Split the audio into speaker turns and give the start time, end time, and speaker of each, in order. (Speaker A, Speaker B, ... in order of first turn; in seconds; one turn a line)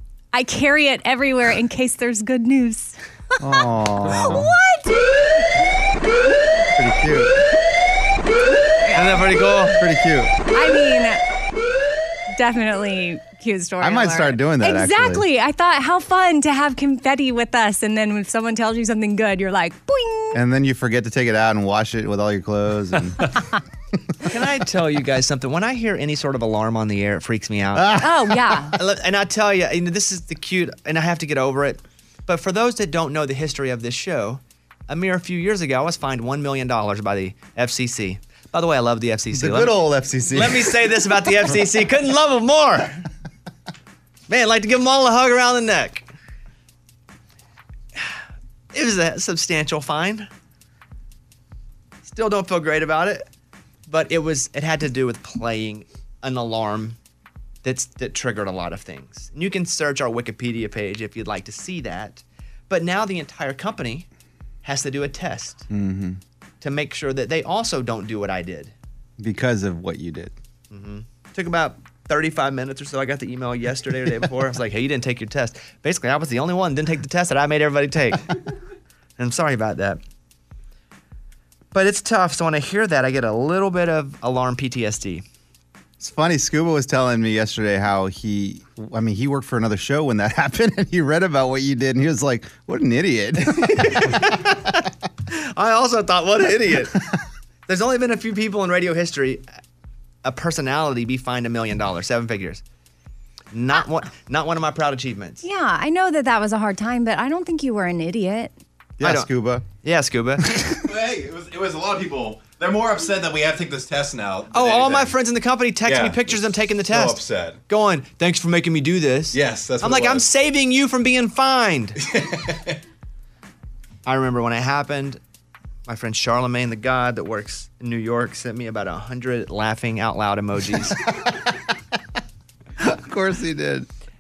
Speaker A: 0.3-3.0
Speaker B: 3.4-4.6
Speaker A: 4.0-5.0
Speaker B: 6.8-7.4
Speaker A: 8.8-9.2
Speaker C: 8.9-9.8
Speaker B: 9.8-10.3
Speaker A: 10.5-11.2
Speaker A: 12.3-20.4
Speaker B: 13.8-15.2
Speaker B: 20.3-23.3
Speaker C: 24.2-28.0
Speaker B: 27.7-28.6
Speaker A: 28.0-28.8
Speaker C: 28.7-39.8
Speaker B: 39.3-40.9
Speaker C: 40.3-43.0
Speaker C: 44.3-46.1
Speaker C: 48.7-50.3
Speaker C: 52.0-53.2
Speaker C: 53.9-57.0
Speaker C: 57.6-64.1
Speaker C: 64.6-65.7
Speaker B: 65.7-66.2
Speaker C: 66.6-68.7
Speaker B: 69.2-70.3
Speaker C: 70.7-78.3
Speaker C: 79.2-80.0
Speaker C: 81.7-85.2
Speaker B: 86.0-94.4
Speaker C: 93.6-97.0
Speaker C: 97.7-99.4
Speaker C: 100.2-102.6
Speaker C: 103.5-105.4
Speaker A: 105.4-108.5
Speaker B: 109.0-109.7
Speaker C: 109.0-109.3
Speaker C: 109.8-110.5
Speaker D: 110.9-115.1
Speaker C: 114.5-122.0
Speaker D: 115.9-117.6
Speaker D: 119.3-120.2
Speaker D: 122.2-122.7
Speaker C: 124.0-125.2
Speaker C: 125.9-131.0
Speaker B: 132.8-133.9